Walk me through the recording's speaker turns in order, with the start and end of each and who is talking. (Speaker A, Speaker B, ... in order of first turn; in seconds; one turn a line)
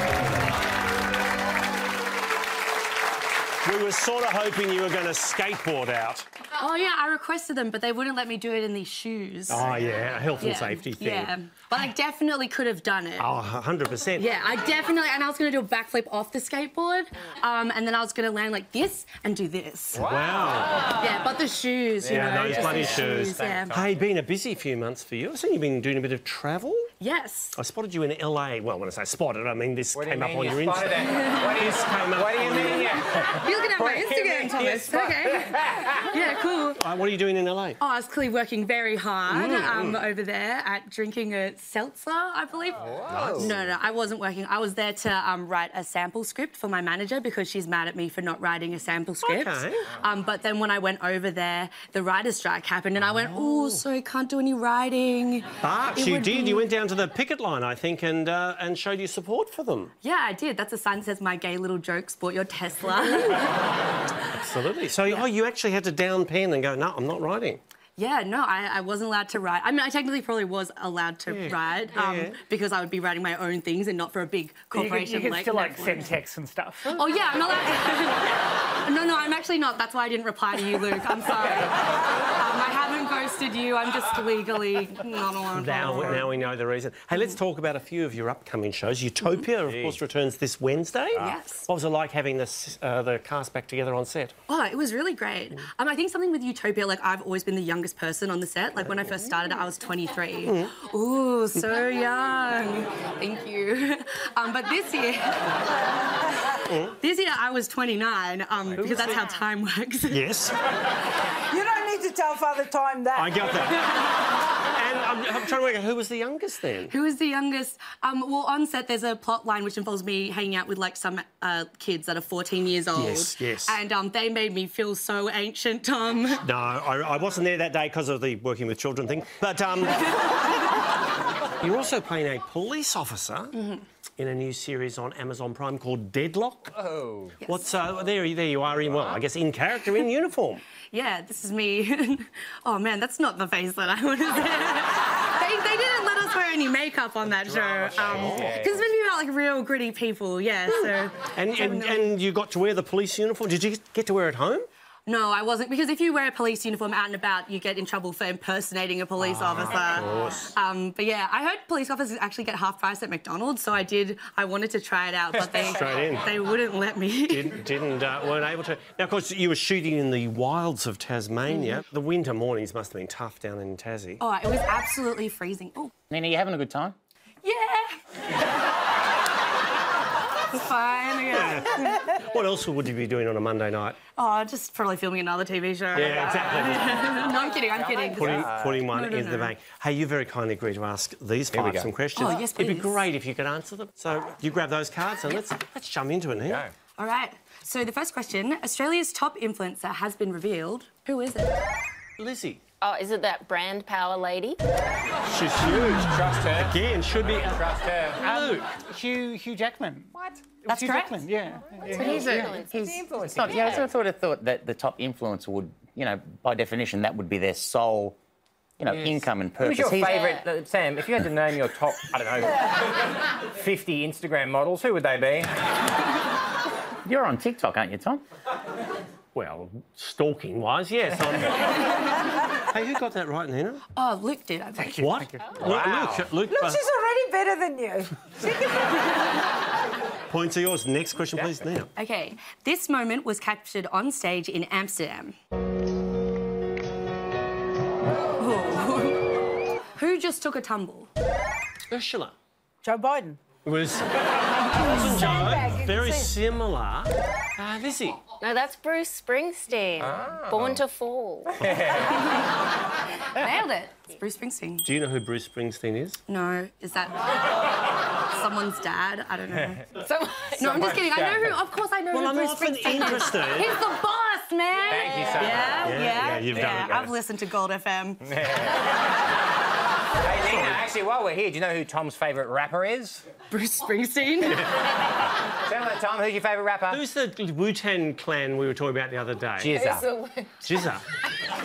Speaker A: 3.6-6.2
Speaker B: 6.5-9.7
Speaker A: 9.5-11.3
Speaker B: 10.4-13.3
Speaker A: 13.2-14.3
Speaker B: 14.2-20.1
Speaker C: 19.9-21.1
Speaker A: 20.0-20.9
Speaker B: 20.9-23.7
Speaker C: 22.0-24.0
Speaker A: 22.0-26.9
Speaker B: 27.0-27.6
Speaker A: 27.6-33.2
Speaker C: 29.9-36.4
Speaker B: 31.1-31.5
Speaker B: 32.7-36.8
Speaker A: 36.8-37.8
Speaker B: 37.8-56.7
Speaker A: 39.3-40.0
Speaker C: 42.7-43.6
Speaker A: 43.1-43.6
Speaker A: 49.2-49.9
Speaker A: 53.0-53.8
Speaker A: 55.6-59.9
Speaker B: 60.0-63.5
Speaker A: 64.3-67.6
Speaker B: 68.0-76.1
Speaker A: 71.3-72.4
Speaker D: 74.7-77.0
Speaker B: 76.9-86.3
Speaker A: 85.5-94.3
Speaker D: 85.9-86.2
Speaker C: 89.6-90.0
Speaker B: 91.2-91.7
Speaker B: 94.5-105.6
Speaker A: 100.4-100.7
Speaker A: 106.7-107.0
Speaker B: 107.0-110.2
Speaker A: 108.7-109.2
Speaker C: 108.8-109.2
Speaker A: 110.1-110.5
Speaker E: 111.5-113.5
Speaker A: 113.1-114.2
Speaker A: 114.7-116.9
Speaker B: 116.9-126.4
Speaker A: 122.9-123.8
Speaker A: 126.4-130.4
Speaker B: 130.1-130.3
Speaker A: 131.6-133.6
Speaker A: 134.2-136.8
Speaker C: 136.7-137.3
Speaker A: 137.4-140.6
Speaker B: 140.9-152.1
Speaker C: 147.2-149.0
Speaker A: 147.9-148.6
Speaker A: 150.8-154.7
Speaker B: 155.1-167.6
Speaker A: 159.2-160.5
Speaker C: 165.4-165.7
Speaker A: 165.5-166.3
Speaker A: 167.3-174.2
Speaker B: 174.2-175.9
Speaker F: 176.1-176.9
Speaker B: 177.4-178.0
Speaker B: 180.5-182.1
Speaker A: 181.3-184.0
Speaker B: 184.2-189.5
Speaker A: 185.9-187.1
Speaker C: 187.0-188.9
Speaker A: 188.1-196.6
Speaker C: 191.5-191.9
Speaker B: 192.2-193.1
Speaker C: 196.4-196.7
Speaker B: 197.0-201.6
Speaker A: 202.2-202.6
Speaker G: 202.8-204.6
Speaker A: 205.3-207.6
Speaker C: 205.6-208.4
Speaker A: 208.2-208.7
Speaker D: 208.2-212.1
Speaker B: 210.7-211.2
Speaker G: 211.8-212.9
Speaker F: 211.9-218.2
Speaker C: 212.1-212.5
Speaker C: 213.0-213.9
Speaker G: 213.5-213.8
Speaker F: 218.8-220.3
Speaker C: 218.9-225.6
Speaker G: 220.1-220.4
Speaker F: 227.0-228.2
Speaker A: 229.3-232.1
Speaker A: 232.7-233.8
Speaker B: 233.9-234.9
Speaker D: 234.8-235.5
Speaker A: 235.0-236.8
Speaker C: 235.6-236.3
Speaker E: 236.5-239.2
Speaker A: 240.3-241.9
Speaker B: 241.9-245.3
Speaker B: 248.4-249.3
Speaker B: 249.9-251.1
Speaker A: 251.9-252.3
Speaker E: 252.8-253.4
Speaker A: 253.6-258.2
Speaker E: 254.8-256.3
Speaker G: 258.4-261.7
Speaker C: 260.0-260.8
Speaker C: 261.6-262.2
Speaker B: 263.4-264.9
Speaker A: 264.8-266.2
Speaker B: 266.3-267.4
Speaker B: 268.3-278.4
Speaker C: 270.6-271.6
Speaker A: 272.1-273.8
Speaker C: 274.8-277.0
Speaker A: 275.4-277.1
Speaker C: 278.2-279.1
Speaker C: 280.2-283.2
Speaker A: 280.5-280.8
Speaker B: 283.5-284.6
Speaker C: 285.6-287.0
Speaker A: 286.9-289.8
Speaker C: 289.6-290.0
Speaker G: 289.7-290.8
Speaker A: 290.6-291.0